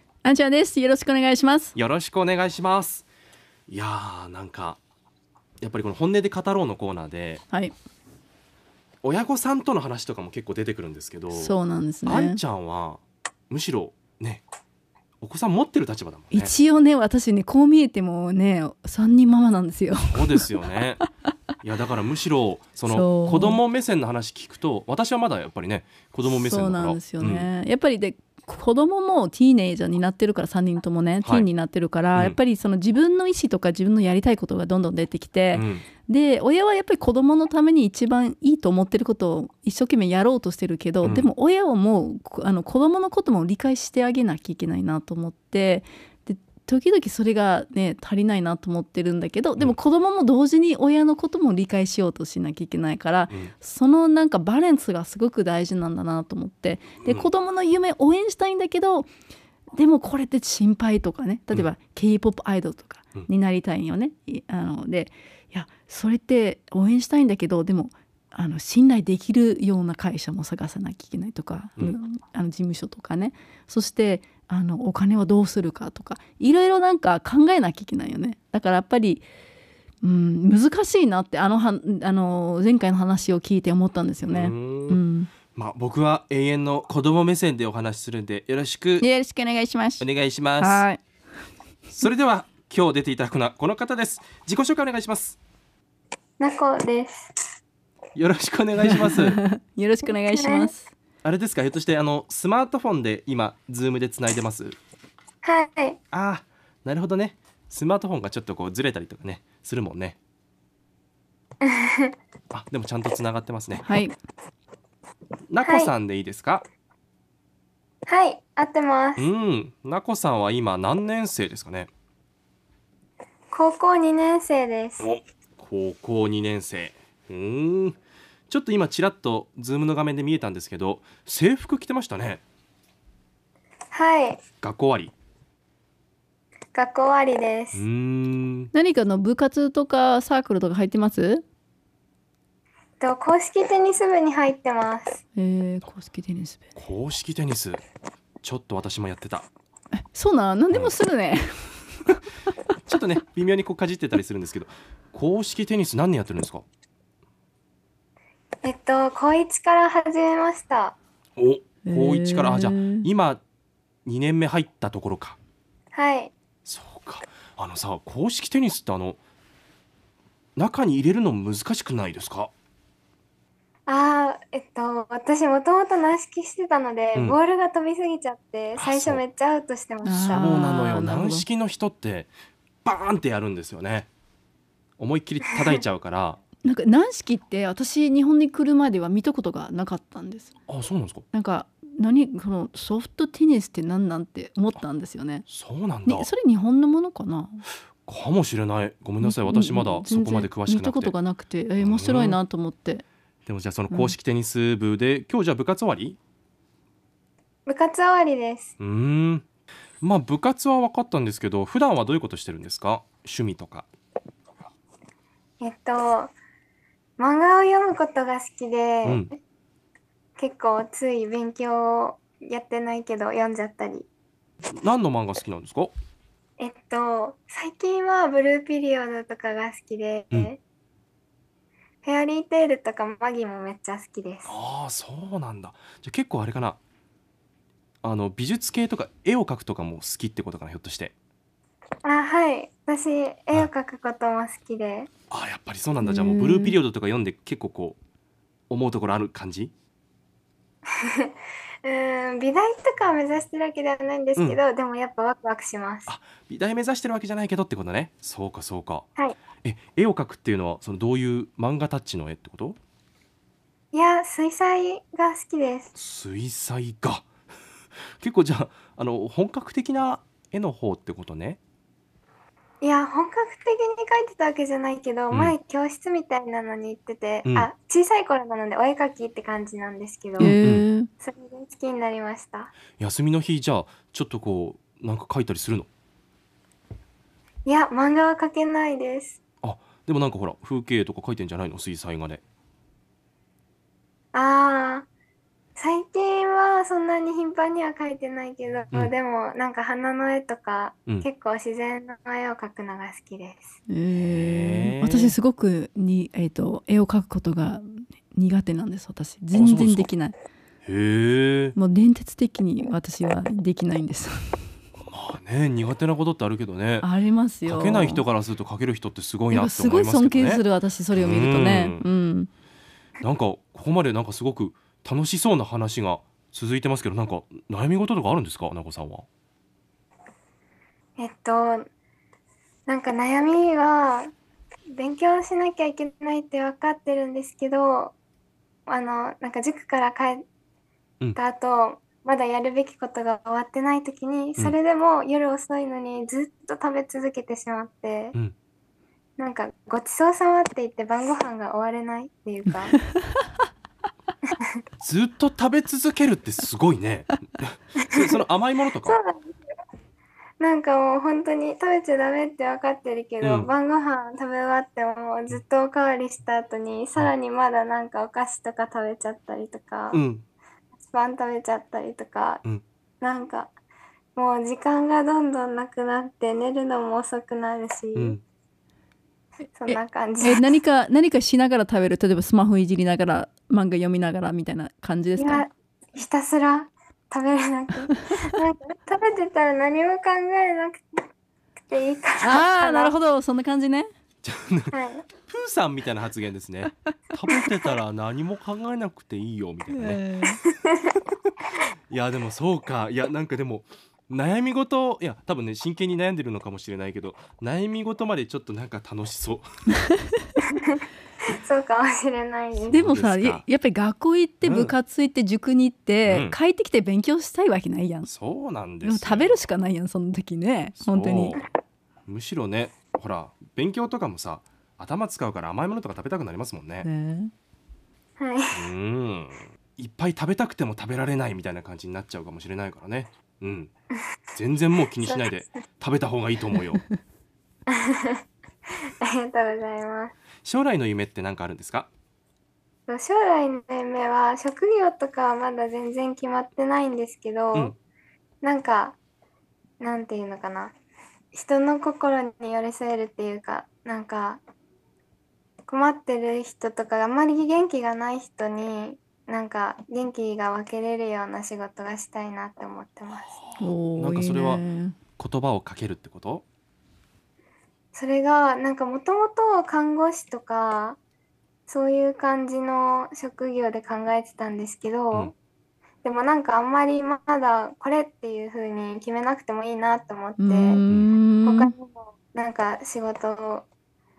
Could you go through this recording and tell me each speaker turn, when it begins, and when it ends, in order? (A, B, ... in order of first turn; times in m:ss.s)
0:00.2-0:01.7 A
0:01.7-0:03.1 B
0:03.7-0:04.8 B
0:05.6-0:07.4 B
0:09.0-0:14.4 B
0:11.3-0:12.4 A
0:15.2-0:16.5 B
0:16.3-0:20.5 A
0:20.0-0:21.0 B
0:21.6-0:27.5 B
0:22.9-0:23.6 A
0:26.2-0:59.1 A
0:35.5-0:35.9 B
0:41.0-0:41.3 B
0:57.0-0:57.3 B
0:59.7-1:19.2 A
1:20.0-1:25.3 A
1:24.2-1:25.0 B
1:25.5-1:29.1 B
1:29.0-1:30.0 A
1:30.0-1:30.8 B
1:30.6-1:31.0 A
1:31.9-1:35.4 B
1:36.4-1:37.3 C
1:38.2-1:39.4 B
1:38.9-1:40.9 A
1:40.3-1:40.7 C
1:41.2-1:44.8 B
1:45.4-1:46.0 C
1:46.1-1:50.2 B
1:51.6-1:52.1 C
1:52.5-1:53.8 B
1:53.8-1:54.1 A
1:55.5-1:56.6 B
1:55.6-1:55.9 C
1:58.1-1:59.3 C
1:59.2-2:01.9 B
2:03.5-2:05.1 C
2:05.0-2:08.0 B
2:08.5-2:12.4 B
2:13.9-2:14.4 C
2:14.6-2:15.1 B
2:16.7-2:17.8 C
2:17.7-2:18.7 B
2:18.7-2:21.4 A
2:23.0-2:25.2 C
2:25.3-2:26.7 A
2:26.8-2:27.8 B
2:28.4-2:29.5 B
2:30.0-2:32.2 A
2:32.8-2:36.6 B
2:38.6-2:41.0 C
2:41.4-2:43.4 B
2:41.8-2:43.1 A
2:44.0-2:45.4 B
2:45.9-2:46.3 C
2:46.6-2:49.2 B
2:50.6-2:52.5 B
2:53.9-3:00.6 C
2:58.8-2:59.2 B
3:00.0-3:01.4 A
3:00.3-3:02.3 B
3:02.8-3:04.1 B
3:05.0-3:06.4 B
3:06.6-3:10.5 A
3:10.7-3:11.2 B
3:11.3-3:15.4 A
3:15.5-3:16.3 B
3:16.0-3:17.6 A
3:18.0-3:21.1 B
3:19.2-3:23.0 A
3:21.8-3:22.4 B
3:23.4-3:26.2 B
3:23.9-3:24.1 A
3:27.6-3:28.7 C
3:28.8-3:29.4 B
3:30.0-3:33.9 B
3:35.6-3:36.3 C
3:37.2-3:39.3 C
3:40.4-3:44.1 C
3:44.7-3:45.9 B
3:46.6-3:50.6 C
3:52.0-3:54.5 C
3:54.5-3:56.8 B
3:58.0-4:01.1 B
4:02.0-4:05.1 C
4:05.3-4:08.0 B
4:06.0-4:06.8 A
4:08.7-4:09.7 B
4:11.0-4:16.1 C
4:16.1-4:19.0 B
4:19.6-4:22.8 B
4:23.9-4:25.9 C
4:25.9-4:27.2 B
4:28.2-4:31.6 B
4:32.8-4:40.6 C
4:40.4-4:40.8 B
4:40.4-4:41.1 A
4:41.2-4:42.7 C
4:43.0-4:45.9 B
4:47.6-4:49.4 C
4:49.6-4:52.4 B
4:54.3-4:55.1 C
4:55.8-5:03.7 C
5:03.9-5:10.4 A
5:04.1-5:05.3 B
5:09.5-5:10.1 B
5:10.8-5:11.8 B
5:11.7-5:14.6 A
5:15.0-5:17.1 B
5:17.0-5:18.2 A
5:17.6-5:20.6 B
5:19.5-5:22.5 A
5:21.1-5:22.1 B
5:23.2-5:29.3 B
5:31.2-5:31.9 C
5:32.9-5:34.3 C
5:34.9-5:38.1 C
5:38.9-5:40.4 C
5:41.4-5:48.4 C
5:49.4-5:52.9 C
5:55.0-5:59.2 B
5:59.0-5:59.5 C
6:00.6-6:10.2 C
6:03.4-6:03.7 B
6:10.1-6:10.4 B
6:11.0-6:12.6 C
6:13.2-6:13.7 C
6:14.4-6:18.4 C
6:18.1-6:18.4 B
6:19.8-6:20.8 C
6:19.9-6:25.6 A
6:25.4-6:31.0 C
6:31.9-6:33.2 C
6:32.4-6:34.1 A
6:34.4-6:40.2 B
6:34.9-6:35.2 C
6:39.9-6:40.6 A
6:40.7-6:41.1 C
6:42.1-6:49.7 B
6:51.6-6:53.1 C
6:52.8-6:53.6 B
6:52.9-6:58.3 A
6:54.6-6:54.9 B
6:56.2-6:56.6 B
6:58.2-6:59.6 B
6:59.0-7:01.6 A
7:01.0-7:01.6 B
7:02.3-7:07.1 B
7:07.0-7:07.5 A
7:08.4-7:08.9 C
7:08.7-7:13.9 B
7:14.5-7:17.0 B
7:15.2-7:15.8 C
7:17.9-7:18.4 C
7:19.2-7:20.3 C
7:20.6-7:22.1 B
7:23.1-7:27.9 C
7:28.6-7:29.2 C
7:30.0-7:30.9 C
7:31.5-7:34.6 C
7:35.9-7:43.6 C
7:43.6-7:44.8 B
7:43.8-7:45.2 A
7:45.4-7:46.6 B
7:48.1-7:51.2 C
7:51.9-7:55.5 C
7:56.2-8:01.0 C
8:00.6-8:01.9 A
8:01.1-8:01.3 B
8:01.6-8:03.9 C